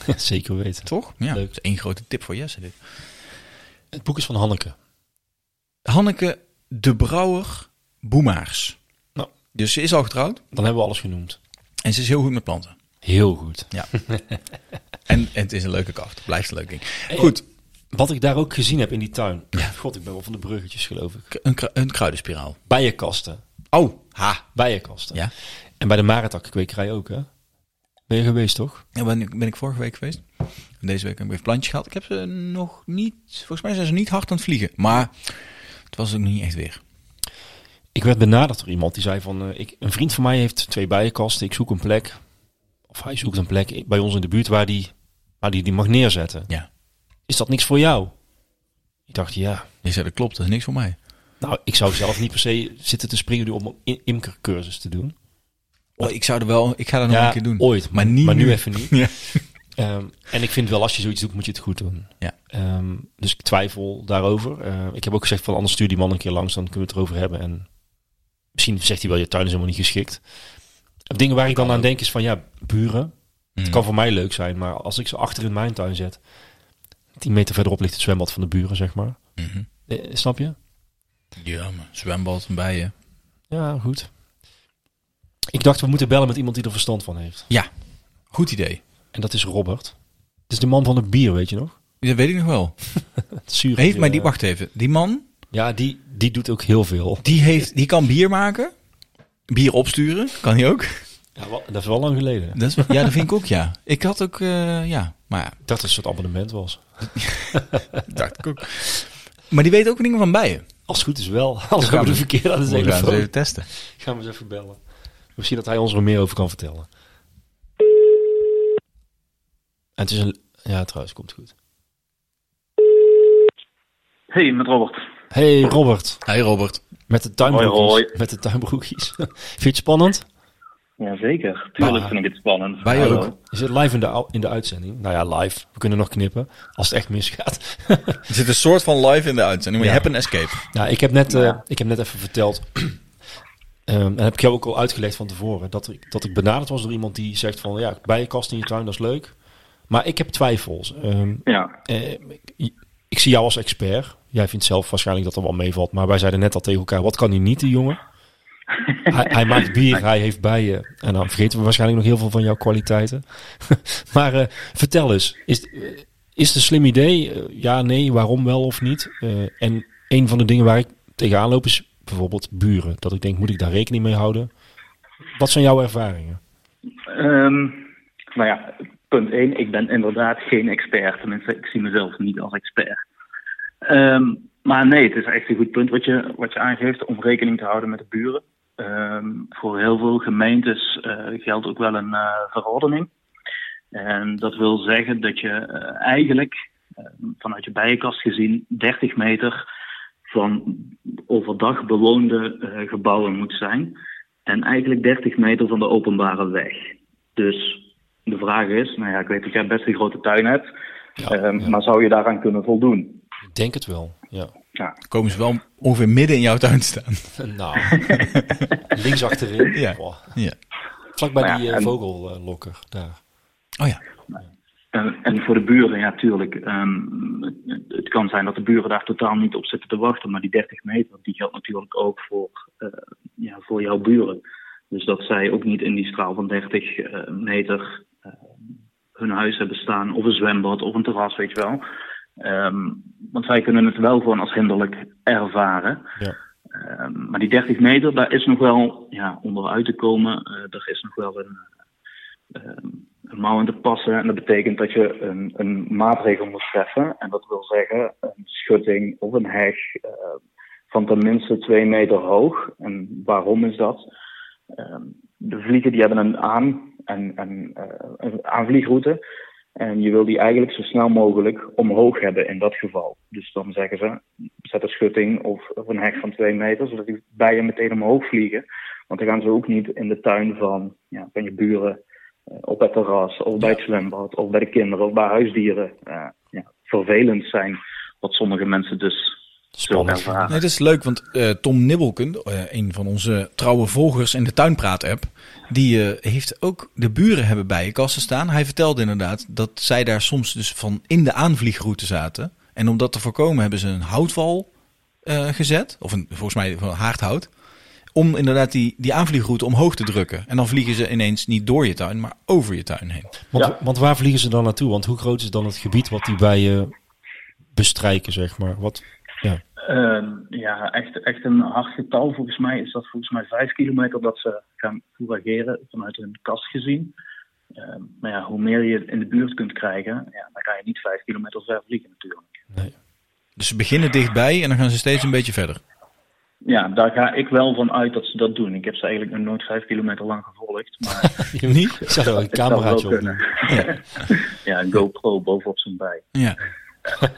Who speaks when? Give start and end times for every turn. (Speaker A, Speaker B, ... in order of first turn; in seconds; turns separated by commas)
Speaker A: 0.1-1.5, Speaker B: 0.8-2.8, Speaker A: 3.9-4.8, Speaker B: 5.9-8.8, Speaker B: 9.5-10.4, Speaker A: 10.5-11.4, Speaker B: 11.8-12.8, Speaker A: 13.0-14.4, Speaker B: 15.1-17.4, Speaker A: 17.1-17.4, Speaker A: 17.9-21.3, Speaker B: 21.3-22.6, Speaker A: 22.7-23.4, Speaker B: 23.7-24.5, Speaker A: 24.6-27.3, Speaker A: 28.1-28.9, Speaker B: 28.9-30.2, Speaker B: 30.8-36.8, Speaker A: 37.9-42.2, Speaker A: 42.9-46.5, Speaker A: 47.3-48.1, Speaker A: 49.1-49.7, Speaker B: 49.8-51.0, Speaker A: 51.4-55.1, Speaker B: 56.0-59.4, Speaker A: 57.1-67.7, Speaker A: 68.5-70.2, Speaker A: 71.1-73.1, Speaker B: 71.6-71.8, Speaker B: 73.6-73.8, Speaker A: 73.7-76.2, Speaker A: 77.2-79.2, Speaker B: 79.4-79.7, Speaker A: 79.9-80.6, Speaker B: 81.4-82.9, Speaker A: 83.5-84.1, Speaker A: 85.5-87.5, Speaker B: 88.3-88.8, Speaker A: 89.1-90.0, Speaker A: 90.5-91.8, Speaker B: 92.0-92.8, Speaker A: 93.3-94.3, Speaker B: 93.8-95.2, Speaker A: 95.5-97.3, Speaker B: 97.2-98.7, Speaker B: 99.5-101.0, Speaker A: 101.4-103.1, Speaker B: 102.5-105.6, Speaker A: 105.7-107.8, Speaker B: 108.1-110.7, Speaker A: 110.9-114.8, Speaker B: 111.8-113.7, Speaker A: 115.4-116.9, Speaker A: 120.0-121.5, Speaker C: 124.3-125.0, Speaker A: 125.3-126.2, Speaker B: 126.3-126.8, Speaker A: 127.1-130.3, Speaker C: 127.4-128.1, Speaker C: 131.0-133.4, Speaker A: 131.8-132.2, Speaker B: 132.8-133.3, Speaker A: 132.9-138.2, Speaker B: 138.3-140.6, Speaker A: 139.8-140.1, Speaker A: 140.6-143.0, Speaker C: 141.3-141.6, Speaker A: 143.9-149.3, Speaker A: 149.9-158.0, Speaker C: 151.5-151.7, Speaker A: 159.1-174.5, Speaker A: 175.3-176.4, Speaker C: 177.1-183.0, Speaker C: 183.8-193.1, Speaker C: 193.9-199.6, Speaker C: 200.3-210.7, Speaker A: 211.2-211.8, Speaker C: 211.2-213.2, Speaker A: 213.5-214.5, Speaker B: 215.1-217.3, Speaker A: 217.4-218.3, Speaker B: 218.1-218.4, Speaker A: 218.9-220.4, Speaker B: 219.7-220.6, Speaker A: 221.2-223.2, Speaker C: 221.4-221.9, Speaker C: 224.9-238.0, Speaker C: 239.2-241.8, Speaker C: 242.4-246.1, Speaker C: 246.7-251.6, Speaker C: 252.5-260.4, Speaker C: 260.9-264.1, Speaker C: 264.7-269.2, Speaker C: 269.8-282.0, Speaker C: 282.5-290.6, Speaker A: 289.8-290.5, Speaker B: 290.5-304.7, Speaker B: 305.3-307.5, Speaker B: 308.1-313.3, Speaker A: 313.5-316.9, Speaker A: 317.7-319.6, Speaker C: 319.8-327.1, Speaker C: 327.8-332.5, Speaker B: 333.6-335.8, Speaker C: 336.6-341.5, Speaker A: 341.4-343.9, Speaker B: 341.6-342.0, Speaker C: 342.1-346.3, Speaker B: 346.3-346.6